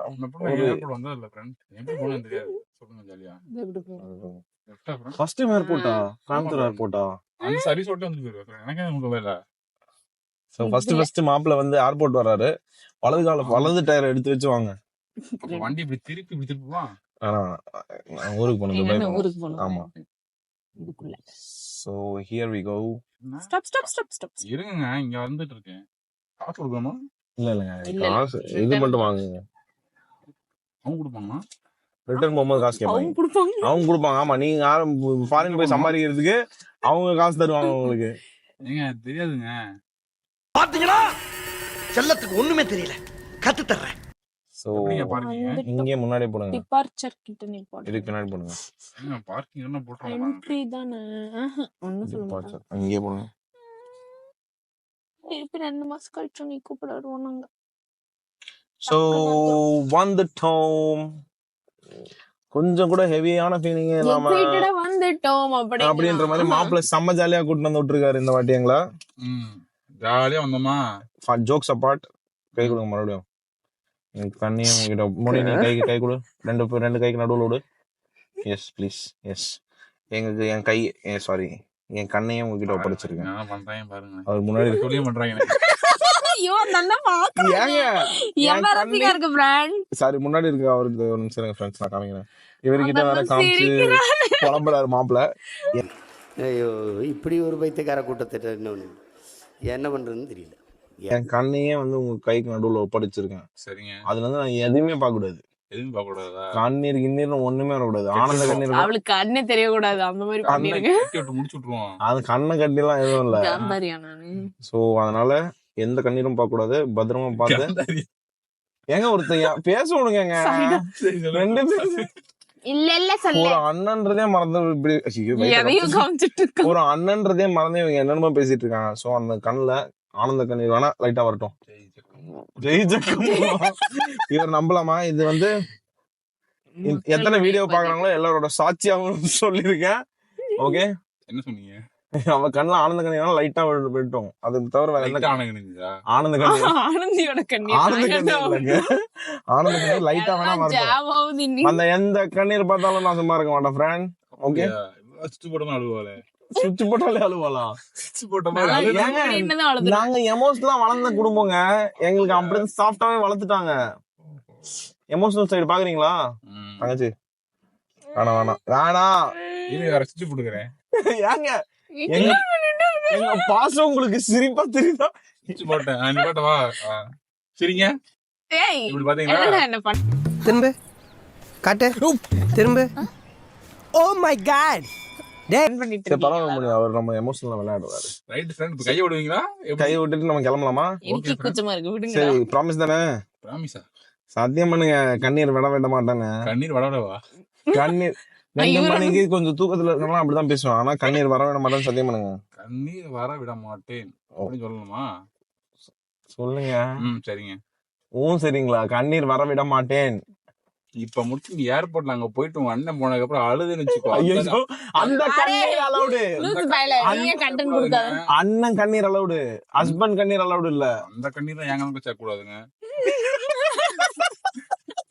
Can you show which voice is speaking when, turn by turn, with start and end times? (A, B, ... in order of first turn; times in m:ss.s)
0:00.1-0:03.4 A
0:00.4-0:00.8 B
0:03.5-0:04.0 C
0:04.0-0:04.4 B
0:04.7-0:05.2 A
0:05.2-0:07.1 B
0:05.5-0:06.0 C
0:06.3-0:06.8 A
0:07.4-0:09.4 A
0:07.4-0:07.7 C
0:10.5-0:12.5 B
0:10.6-0:11.1 C
0:13.0-0:14.7 B
0:13.4-0:13.7 A
0:15.3-0:15.7 C
0:15.4-0:16.9 A
0:17.2-0:19.9 B
0:18.7-0:20.0 C
0:20.8-0:21.2 C
0:21.6-0:22.9 B
0:23.2-0:23.9 A
0:23.4-0:24.4 C
0:24.4-0:25.8 A
0:26.4-0:27.0 A
0:27.4-0:29.4 B
0:27.8-0:29.0 C
0:30.8-0:31.4 A
0:32.1-0:38.1 B
0:32.8-0:33.8 C
0:35.4-0:35.9 A
0:37.6-0:37.9 C
0:38.6-0:39.5 A
0:40.6-0:41.1 D
0:41.9-0:43.9 D
0:44.6-0:46.6 B
0:44.7-0:45.6 A
0:45.2-0:45.9 C
0:46.5-0:48.1 C
0:47.8-0:48.6 B
0:49.0-0:50.4 A
0:50.0-0:52.6 C
0:52.0-0:53.3 B
0:55.3-0:57.5 C
0:58.8-1:01.1 B
0:58.9-0:59.6 C
1:02.5-1:04.7 B
1:04.0-1:06.8 C
1:05.8-1:08.8 B
1:09.2-1:10.8 A
1:11.3-1:13.2 B
1:14.2-1:17.6 B
1:18.4-1:19.6 B
1:20.1-1:23.3 B
1:22.7-1:25.5 A
1:24.3-1:25.0 B
1:25.5-1:29.8 C
1:27.4-1:29.2 B
1:29.9-1:35.2 B
1:32.8-1:34.6 C
1:35.8-1:39.0 E
1:39.7-1:41.1 E
1:41.1-1:43.4 B
1:43.6-1:44.0 A
1:44.1-1:45.4 B
1:45.7-1:46.5 A
1:46.5-1:48.9 B
1:48.1-1:48.7 A
1:48.7-1:51.0 C
1:50.4-1:51.9 A
1:50.5-1:50.8 B
1:52.0-1:53.6 B
1:53.1-1:54.5 C
1:54.6-1:57.7 B
1:57.4-1:58.0 A
1:58.9-2:00.8 B
2:00.4-2:00.8 C
2:00.9-2:02.1 A
2:01.3-2:02.1 B
2:02.7-2:03.6 C
2:03.3-2:06.1 B
2:05.4-2:06.8 C
2:06.6-2:11.5 B
2:11.7-2:12.9 A
2:12.6-2:15.5 B
2:13.2-2:13.8 C
2:16.8-2:18.0 C
2:16.8-2:20.0 B
2:20.6-2:20.9 B
2:21.3-2:21.8 A
2:22.2-2:25.4 B
2:25.0-2:25.9 A
2:26.1-2:26.8 B
2:26.4-2:28.8 C
2:27.7-2:31.0 B
2:29.6-2:31.8 C
2:31.6-2:34.7 B
2:34.3-2:36.2 A
2:36.6-2:37.8 B
2:37.9-2:39.4 A
2:38.5-2:40.1 C
2:38.7-2:43.8 B
2:42.2-2:42.6 A
2:45.1-2:46.2 B
2:46.5-2:47.0 A
2:46.8-2:47.1 B
2:48.2-2:48.5 C
2:48.2-2:49.2 B
2:49.4-2:49.7 C
2:49.7-2:50.7 A
2:51.0-2:51.6 B
2:52.0-2:53.5 C
2:52.1-2:52.4 B
2:53.1-2:55.7 B
2:55.5-2:57.0 A
2:57.6-2:57.9 A
2:58.5-3:00.0 C
2:58.9-2:59.6 A
3:00.4-3:00.7 D
3:01.6-3:02.9 D
3:03.9-3:04.9 D
3:05.6-3:06.7 C
3:06.1-3:08.1 B
3:08.3-3:10.0 A
3:09.8-3:10.9 B
3:11.0-3:12.4 C
3:11.1-3:11.6 A
3:12.1-3:13.0 B
3:13.4-3:13.8 A
3:14.3-3:16.3 B
3:16.4-3:17.2 A
3:17.7-3:22.3 B
3:18.6-3:19.2 C
3:22.6-3:25.0 A
3:26.3-3:26.9 B
3:27.0-3:27.6 A
3:28.2-3:30.2 B
3:31.0-3:35.3 A
3:34.1-3:37.3 B
3:35.0-3:38.1 C
3:36.4-3:38.2 A
3:38.4-3:40.9 B
3:41.0-3:42.6 A
3:43.0-3:44.3 C